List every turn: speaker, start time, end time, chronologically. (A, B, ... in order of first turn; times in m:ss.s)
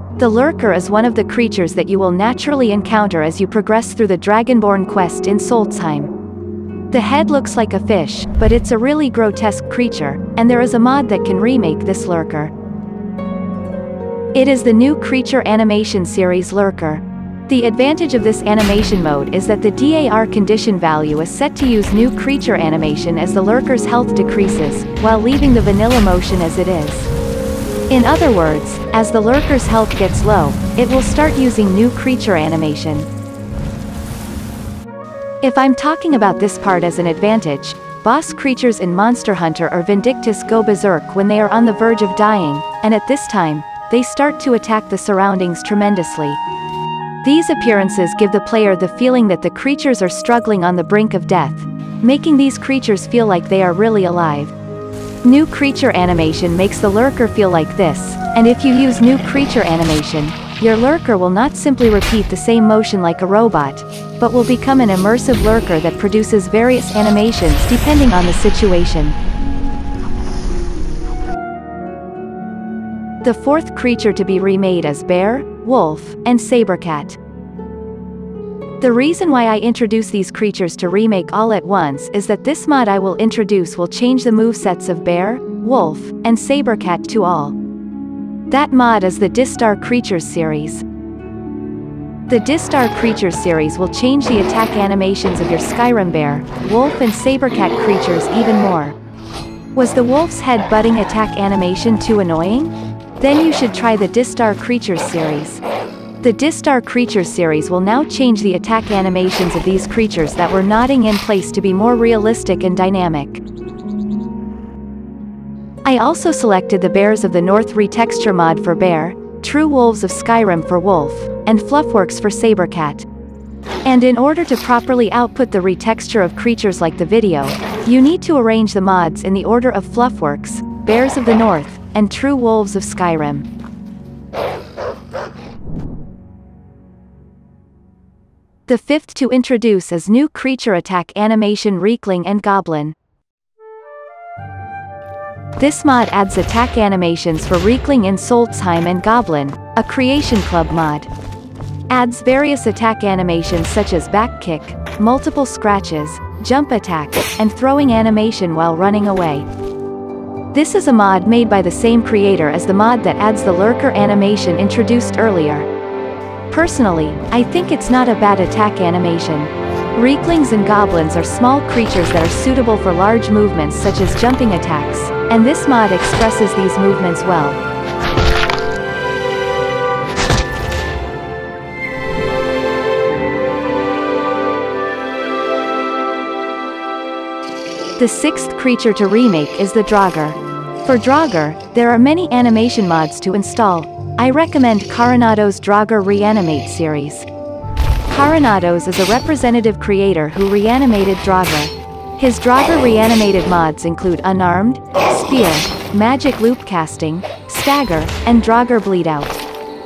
0:00.2-0:06.1 A
0:06.9-0:12.5 A
0:14.3-0:27.1 A
0:27.9-0:33.1 A
0:35.4-0:46.4 A
0:47.2-0:54.5 A
0:55.2-1:09.2 A
1:13.2-1:17.2 A
1:18.8-1:27.6 A
1:28.5-1:30.8 A
1:32.3-1:39.0 A
1:39.7-1:45.6 A
1:46.2-1:53.4 A
1:55.8-2:03.1 A
2:03.8-2:13.4 A
2:18.7-2:22.9 A
2:25.6-2:31.1 A
2:31.9-2:39.5 A
2:40.5-2:45.7 A
2:46.5-2:57.6 A
3:08.0-3:17.2 A
3:18.1-3:29.4 A